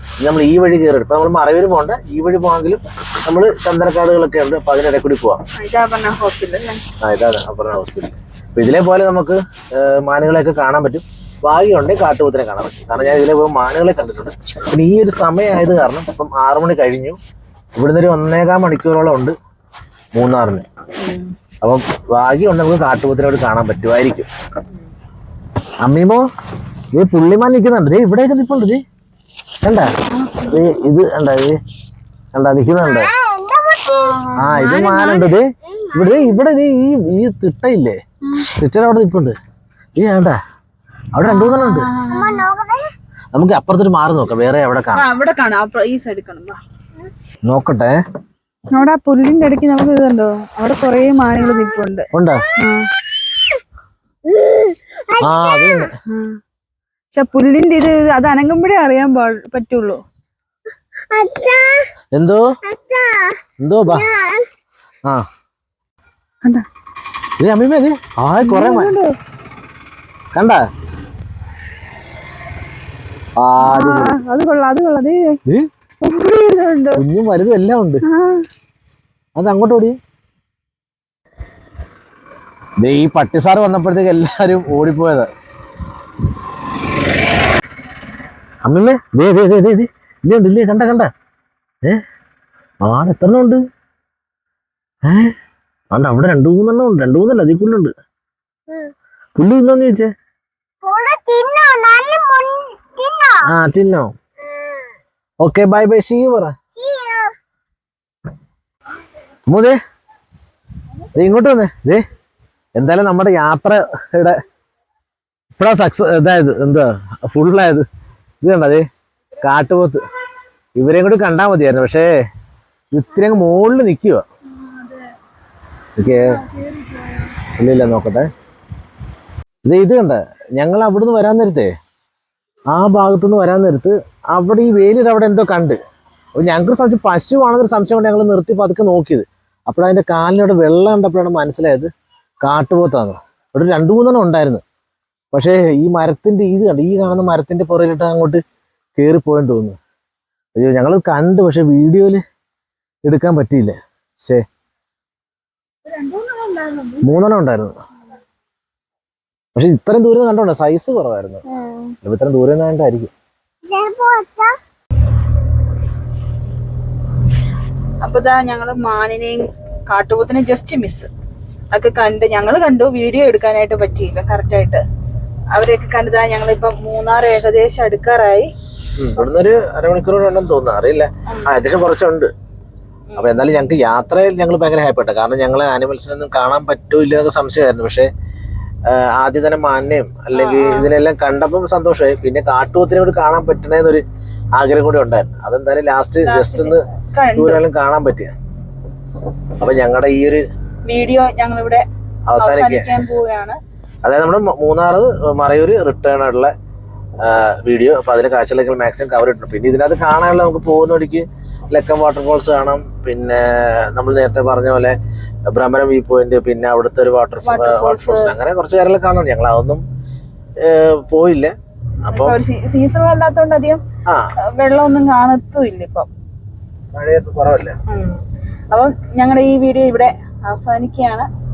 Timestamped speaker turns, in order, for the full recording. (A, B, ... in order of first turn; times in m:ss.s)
0:00.2-0:05.4 A
0:05.6-0:06.8 B
0:07.0-0:17.2 A
0:17.8-0:19.4 A
0:20.1-0:20.6 A
0:21.0-0:21.3 B
0:21.6-0:24.3 A
0:25.8-0:26.2 A
0:26.9-0:28.8 A
0:29.6-0:29.9 A
0:30.1-0:30.6 B
0:30.4-0:31.6 A
0:32.3-0:33.1 A
0:32.8-0:34.2 C
0:34.0-0:35.3 B
0:34.4-0:38.0 A
0:35.7-0:36.4 C
0:38.2-0:38.5 B
0:38.5-0:39.3 A
0:40.0-0:40.4 A
0:41.1-0:41.9 A
0:41.2-0:42.4 B
0:42.1-0:42.9 C
0:43.3-0:45.1 A
0:44.9-0:46.6 B
0:47.4-0:48.0 A
0:48.7-0:52.1 B
0:52.1-0:52.4 A
0:52.6-0:52.8 B
0:54.2-0:55.9 C
0:55.2-0:55.9 A
0:56.1-0:56.4 B
0:57.1-1:00.0 B
1:01.1-1:01.9 C
1:02.1-1:02.4 A
1:02.6-1:04.4 C
1:03.6-1:04.0 A
1:07.4-1:08.9 A
1:08.4-1:09.1 B
1:10.3-1:10.6 A
1:13.4-1:14.2 A
1:13.6-1:15.4 B
1:16.0-1:17.0 B
1:17.0-1:18.0 A
1:18.0-1:18.4 B
1:19.4-1:20.0 A
1:22.8-1:25.3 A
1:28.6-1:31.1 A
1:32.8-1:33.6 A
1:35.0-1:35.3 A
1:35.9-1:37.9 A
1:39.4-1:40.1 A
1:40.8-1:43.5 C
1:43.4-1:44.1 A
1:44.5-1:44.8 C
1:45.4-1:46.6 A
1:46.7-1:47.3 C
1:49.5-1:49.8 A
1:51.1-1:52.0 A
1:52.7-1:54.4 A
1:55.6-1:57.8 A
1:58.4-1:58.8 A
1:59.4-2:00.0 A
2:00.8-2:02.1 A
2:02.9-2:04.2 A
2:04.5-2:05.1 B
2:06.0-2:06.4 A
2:06.0-2:07.3 B
2:07.6-2:08.3 A
2:09.6-2:11.7 A
2:12.7-2:15.8 A
2:16.4-2:21.9 A
2:22.4-2:24.6 A
2:25.3-2:28.4 A
2:29.0-2:29.8 A
2:30.6-2:32.2 A
2:33.0-2:34.4 A
2:35.9-2:37.0 B
2:37.0-2:37.7 A
2:39.5-2:41.4 A
2:42.0-2:43.1 A
2:43.7-2:44.6 C
2:48.0-2:51.1 B
2:51.7-2:54.8 B
2:55.5-2:58.5 B
2:59.0-3:02.3 A
3:03.1-3:03.4 B
3:03.2-3:08.1 A
3:08.8-3:14.0 A
3:10.3-3:10.9 B
3:14.5-3:18.3 A
3:16.2-3:17.6 B
3:19.6-3:20.4 A
3:20.8-3:21.8 B
3:22.3-3:23.0 A
3:22.4-3:23.6 B
3:24.0-3:26.5 A
3:27.2-3:35.0 A
3:35.5-3:39.8 A
3:37.4-3:38.3 B
3:40.6-3:42.4 A
3:42.1-3:43.8 B
3:44.6-3:46.1 B
3:46.9-3:47.8 A
3:47.9-3:48.2 B
3:48.7-3:51.3 B